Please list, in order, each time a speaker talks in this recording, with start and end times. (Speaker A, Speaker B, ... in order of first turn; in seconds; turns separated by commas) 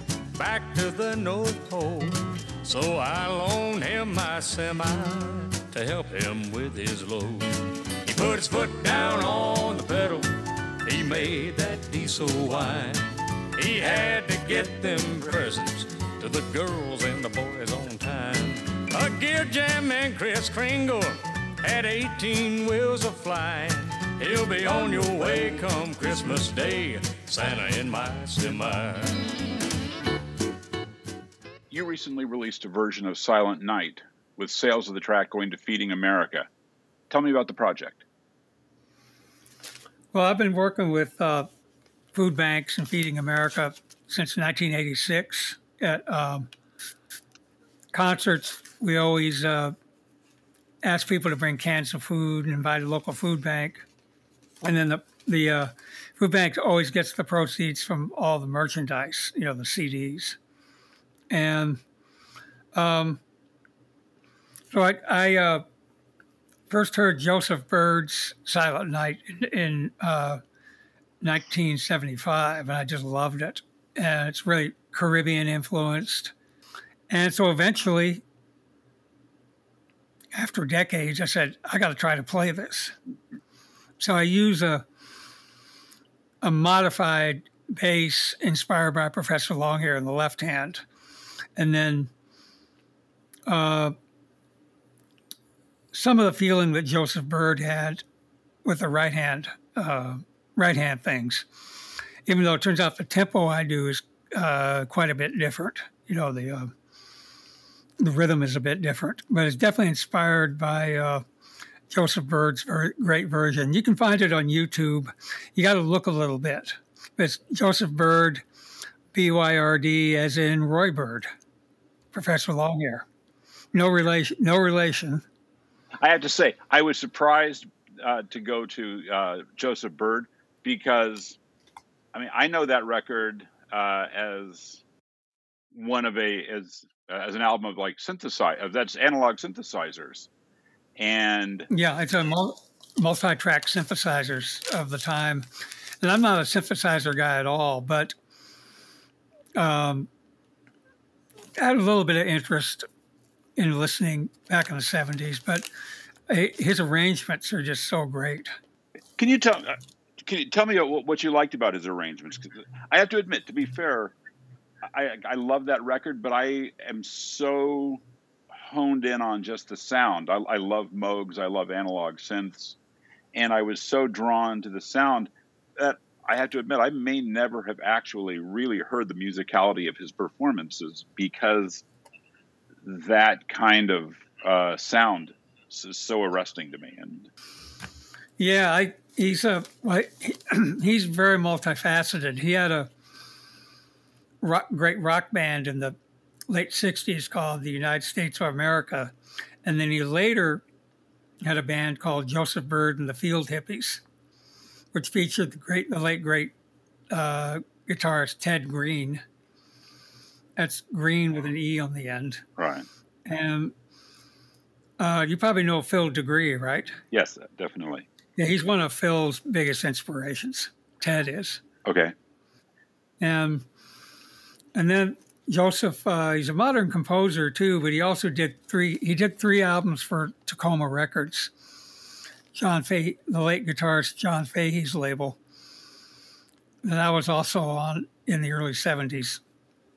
Speaker A: 0.3-29.3, Speaker B: 31.7-36.5, Speaker B: 37.1-38.0, Speaker C: 40.1-41.5, Speaker C: 42.1-46.5, Speaker C: 47.9-49.8, Speaker C: 50.8-53.9, Speaker C: 54.6-60.4, Speaker C: 61.3-61.8, Speaker C: 62.8-63.2, Speaker C: 64.7-65.6, Speaker C: 66.7-70.4, Speaker C: 71.2-76.3, Speaker C: 77.1-78.2, Speaker C: 80.3-83.0, Speaker C: 84.0-84.8, Speaker C: 86.4-90.8, Speaker C: 91.6-92.1, Speaker C: 93.5-94.0, Speaker C: 95.9-98.0, Speaker C: 98.7-101.5, Speaker C: 102.3-106.7, Speaker C: 108.0-111.2, Speaker C: 111.9-118.4, Speaker C: 119.1-121.3, Speaker C: 122.1-123.1, Speaker C: 123.7-125.2, Speaker B: 126.0-131.4, Speaker B: 132.1-134.8, Speaker B: 135.7-140.3, Speaker B: 141.0-141.7, Speaker C: 141.7-145.5, Speaker C: 146.0-148.2, Speaker C: 149.6-150.1, Speaker C: 151.6-152.9, Speaker C: 153.6-155.7, Speaker C: 156.3-158.5, Speaker B: 159.2-164.2, Speaker B: 164.8-168.0, Speaker B: 168.5-172.8, Speaker B: 173.3-181.8, Speaker B: 182.8-187.3, Speaker C: 188.4-192.9, Speaker C: 194.4-196.0, Speaker C: 196.5-200.7, Speaker C: 201.4-204.0, Speaker C: 204.9-206.5, Speaker C: 207.1-209.2, Speaker C: 210.6-212.4, Speaker B: 212.6-212.9, Speaker C: 213.3-213.7, Speaker C: 215.0-217.0, Speaker B: 217.1-218.1, Speaker C: 218.4-221.6, Speaker B: 221.8-222.1, Speaker C: 223.2-223.7, Speaker C: 224.8-231.7, Speaker C: 232.5-235.4, Speaker C: 236.8-239.4